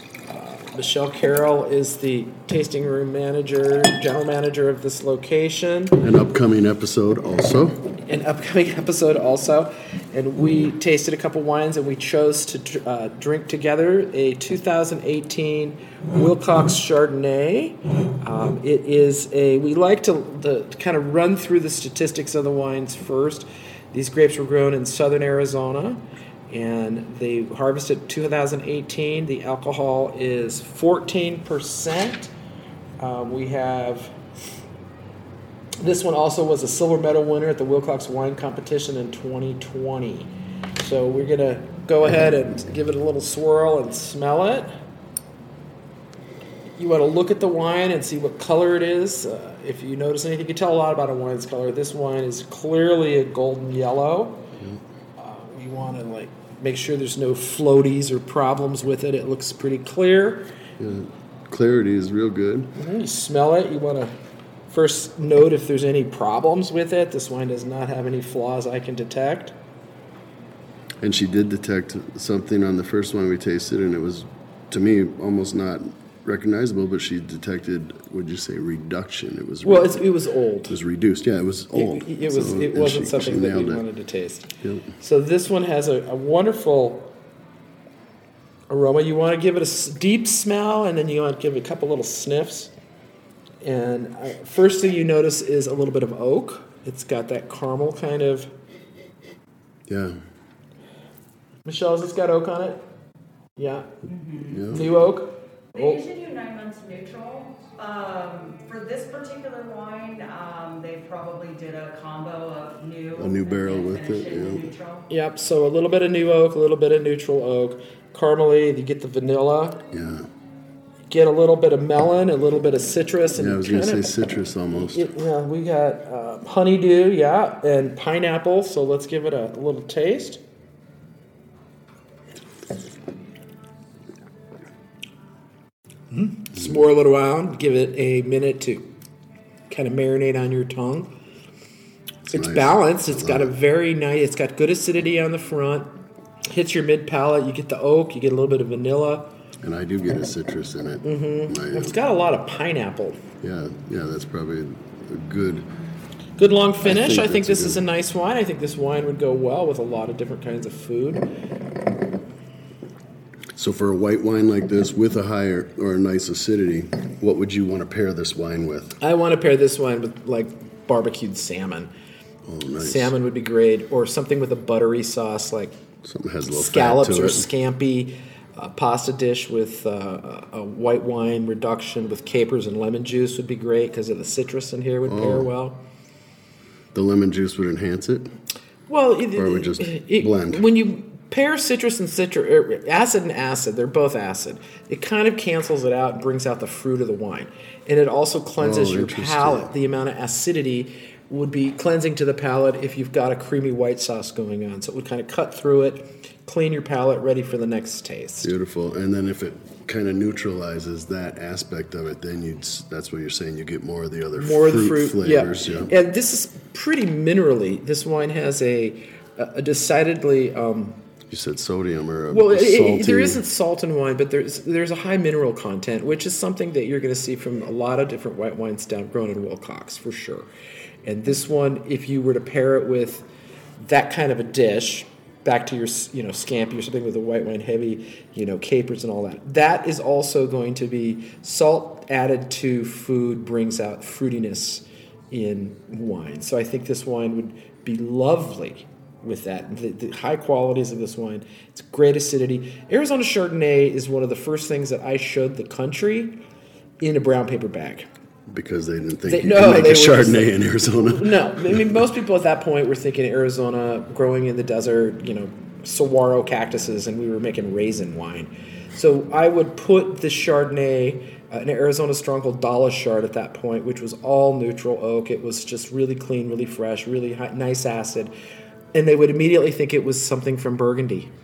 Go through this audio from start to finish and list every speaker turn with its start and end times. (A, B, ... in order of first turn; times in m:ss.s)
0:00.3-0:06.0 A
0:06.0-0:07.8 B
0:08.0-0:32.3 A
0:33.0-0:34.2 A
0:35.8-0:44.7 A
0:46.8-0:54.5 A
0:55.2-1:00.5 A
1:00.8-1:02.7 B
1:02.8-1:04.1 A
1:04.7-1:09.5 A
1:11.0-1:20.0 B
1:19.6-1:20.8 A
1:20.7-1:23.8 B
1:21.7-1:27.1 A
1:24.6-1:24.9 B
1:28.7-1:32.7 A
1:33.6-1:38.5 A
1:39.9-1:40.2 B
1:41.6-1:42.8 A
1:43.6-1:46.0 A
1:44.1-1:44.5 C
1:44.5-1:44.9 B
1:45.7-1:55.0 C
1:53.1-1:54.7 B
1:55.1-1:59.8 A
1:59.9-2:00.3 B
2:01.1-2:04.1 A
2:03.3-2:05.1 B
2:04.9-2:10.4 A
2:16.1-2:18.9 A
2:19.7-2:21.1 A
2:22.3-2:23.6 B
2:22.3-2:25.9 A
2:26.5-2:29.4 A
2:29.6-2:32.0 B
2:31.0-2:33.2 A
2:33.4-2:35.7 B
2:36.4-2:41.3 A
2:36.8-2:37.8 B
2:43.5-2:49.0 B
2:49.0-2:51.9 A
2:52.4-2:53.1 B
2:52.8-2:55.7 A
2:56.0-2:57.5 B
2:56.5-3:05.8 A
3:05.1-3:05.5 B
3:06.9-3:08.3 B
3:08.9-3:28.5 A
3:09.3-3:10.6 B
3:18.6-3:19.7 B
3:28.4-3:35.9 B
3:34.4-3:41.0 A
3:41.3-3:43.4 B
3:42.3-3:50.5 A
3:51.0-3:53.2 A
3:53.8-4:16.4 A
4:17.0-4:18.1 A
4:18.5-4:22.0 B
4:19.3-4:38.3 A
4:38.9-4:41.3 A